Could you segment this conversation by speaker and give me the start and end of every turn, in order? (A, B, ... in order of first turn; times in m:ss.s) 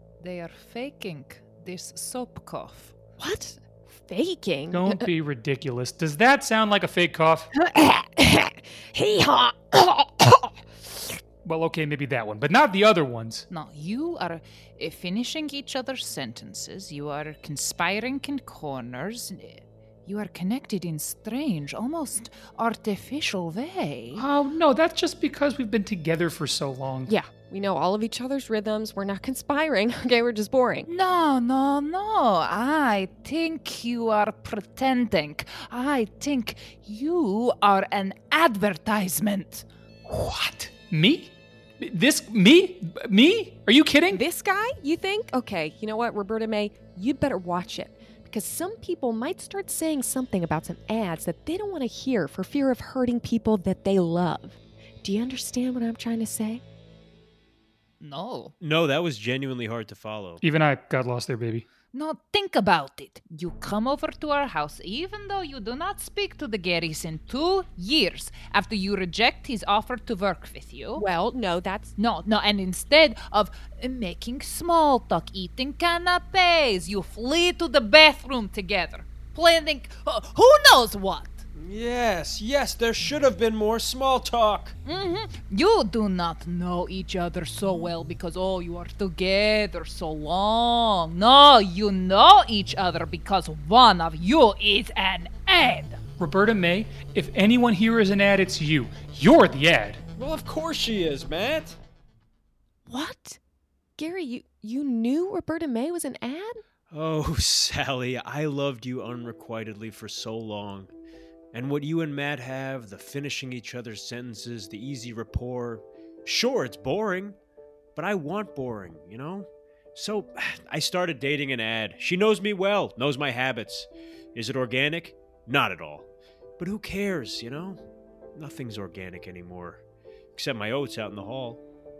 0:00.2-0:02.9 A
0:03.2-0:05.1 B
0:04.7-0:07.5 C
0:07.6-0:11.2 B
0:11.4-0:13.5 C
0:13.5-0:24.3 A
0:24.2-0:27.1 C
0:27.1-0:30.9 B
0:30.9-0:39.7 A
0:40.1-0:44.2 C
0:44.1-0:56.6 B
0:58.0-0:58.5 A
0:58.6-1:00.4 D
1:00.4-1:01.7 C
1:01.9-1:11.0 A
1:11.0-1:11.9 B
1:12.0-1:21.4 A
1:21.5-1:24.8 D
1:24.8-1:36.0 A
1:36.2-1:40.0 C
1:40.2-1:41.8 D
1:42.9-1:43.4 B
1:44.0-1:46.6 B
1:46.9-1:50.9 D
1:51.5-1:57.4 D
1:58.0-2:06.1 D
2:06.6-2:07.8 D
2:08.4-2:09.8 D
2:10.4-2:11.6 D